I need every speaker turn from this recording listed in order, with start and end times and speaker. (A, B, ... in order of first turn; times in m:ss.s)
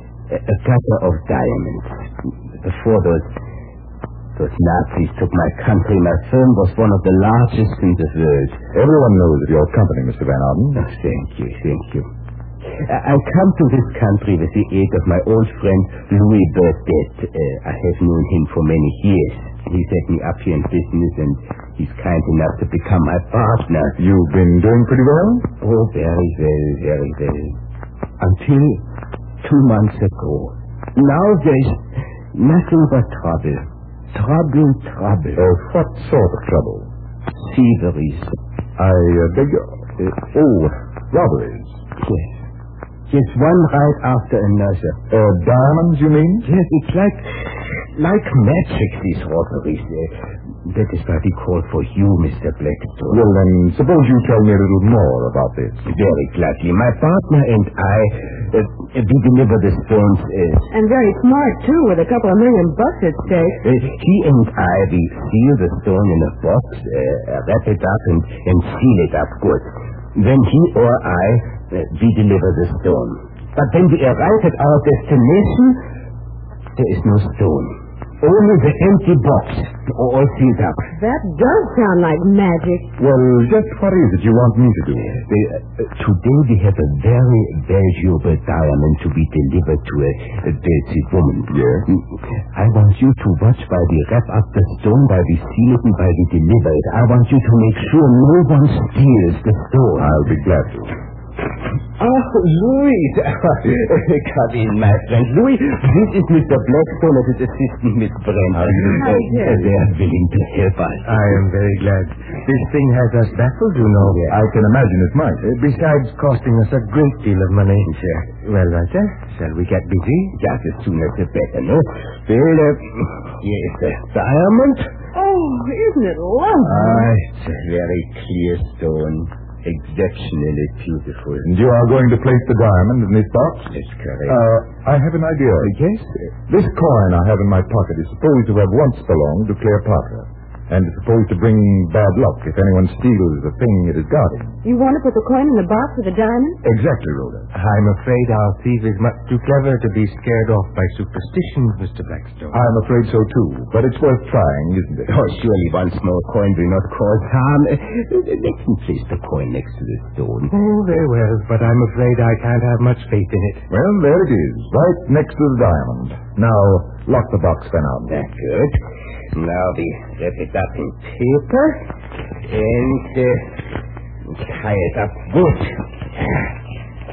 0:00.3-0:03.3 A
0:04.3-0:08.6 A
0:08.7-0:10.8 B
0:10.8-0:12.1 A
0:12.7-0:24.0 A
0:24.0-0:25.5 B
0:25.6-0:27.6 A
0:28.2-0:28.8 A
0:29.4-0:31.8 A
0:32.3-0:35.4 A
0:35.4-0:36.9 B
0:37.3-0:38.3 A
0:38.8-0:41.8 B
0:42.0-0:42.4 A
0:43.1-0:45.0 A
0:45.1-0:46.5 B
0:46.4-0:47.4 A
0:47.9-0:50.1 A
0:50.6-0:53.2 A
0:53.1-0:55.9 B
0:55.9-1:00.7 A
1:00.7-1:03.6 C
1:03.6-1:15.8 A
1:16.8-1:20.8 A
1:20.9-1:22.9 C
1:23.0-1:25.2 B
1:25.2-1:40.2 A
1:31.5-1:31.9 B
1:39.9-1:40.9 B
1:42.0-1:51.4 A
1:48.5-1:49.1 B
1:49.0-1:49.7 C
1:51.0-1:54.2 D
1:54.0-1:54.3 A
1:54.2-1:55.4 B
1:55.4-2:00.4 D
1:57.8-1:58.4 A
2:00.3-2:04.9 A
2:05.1-2:07.1 C
2:06.6-2:11.5 A
2:11.4-2:13.7 B
2:13.7-2:14.4 A
2:14.3-2:15.7 B
2:15.6-2:16.2 A
2:16.5-2:24.6 B
2:24.6-2:26.6 C
2:26.6-2:27.5 B
2:27.5-2:32.6 D
2:32.5-2:35.1 B
2:35.1-2:41.0 A
2:40.5-2:43.6 D
2:43.7-2:48.2 B
2:48.1-2:48.8 A
2:49.3-2:53.7 A
2:54.2-2:56.5 A